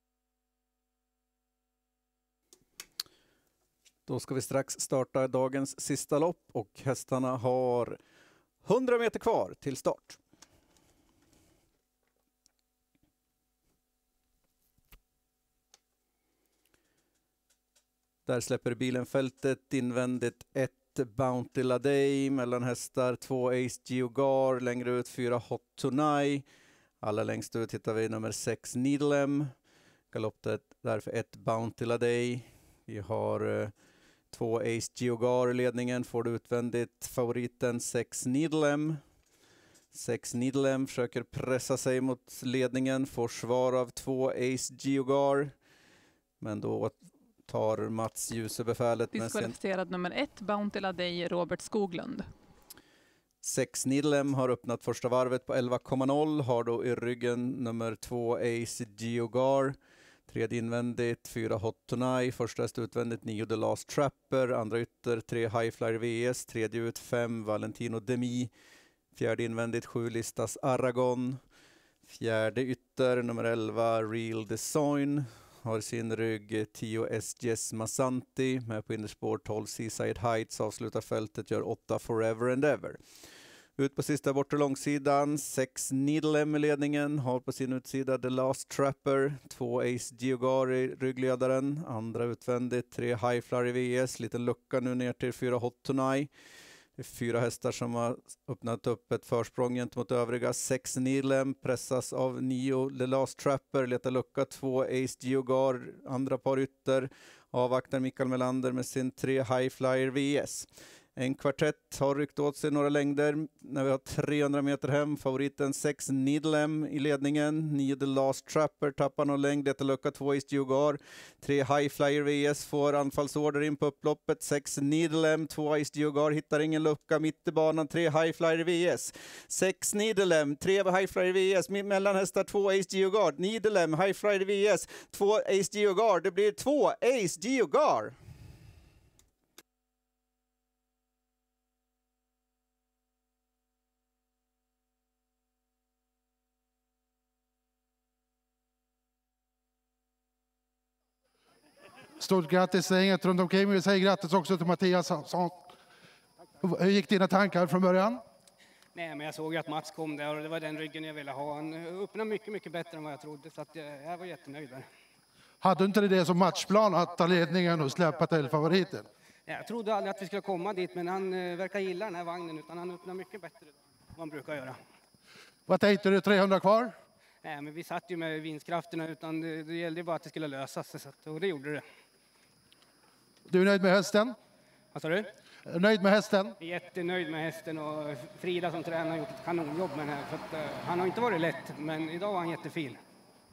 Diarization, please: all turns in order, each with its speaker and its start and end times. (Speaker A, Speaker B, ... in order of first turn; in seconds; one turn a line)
Speaker A: 4.1-8.0
Speaker A: 8.6-10.2
Speaker A: 18.3-26.4
Speaker A: 27.0-29.5
Speaker A: 30.1-33.7
Speaker A: 34.3-39.0
Speaker A: 39.9-45.5
Speaker A: 46.4-49.5
Speaker B: 49.1-52.3
Speaker A: 53.4-59.8
Speaker A: 60.3-68.5
Speaker A: 69.1-71.4
Speaker A: 72.0-83.0
Speaker A: 83.8-96.3
Speaker A: 97.0-138.2
Speaker C: 152.2-155.6
Speaker C: 156.6-158.2
Speaker D: 158.9-164.8
Speaker C: 165.6-169.1
Speaker D: 169.5-174.8
Speaker C: 175.7-177.0
Speaker D: 177.4-181.8
Speaker C: 183.5-184.4
Speaker D: 184.9-185.3
Speaker C: 185.7-186.6
Speaker D: 186.6-193.0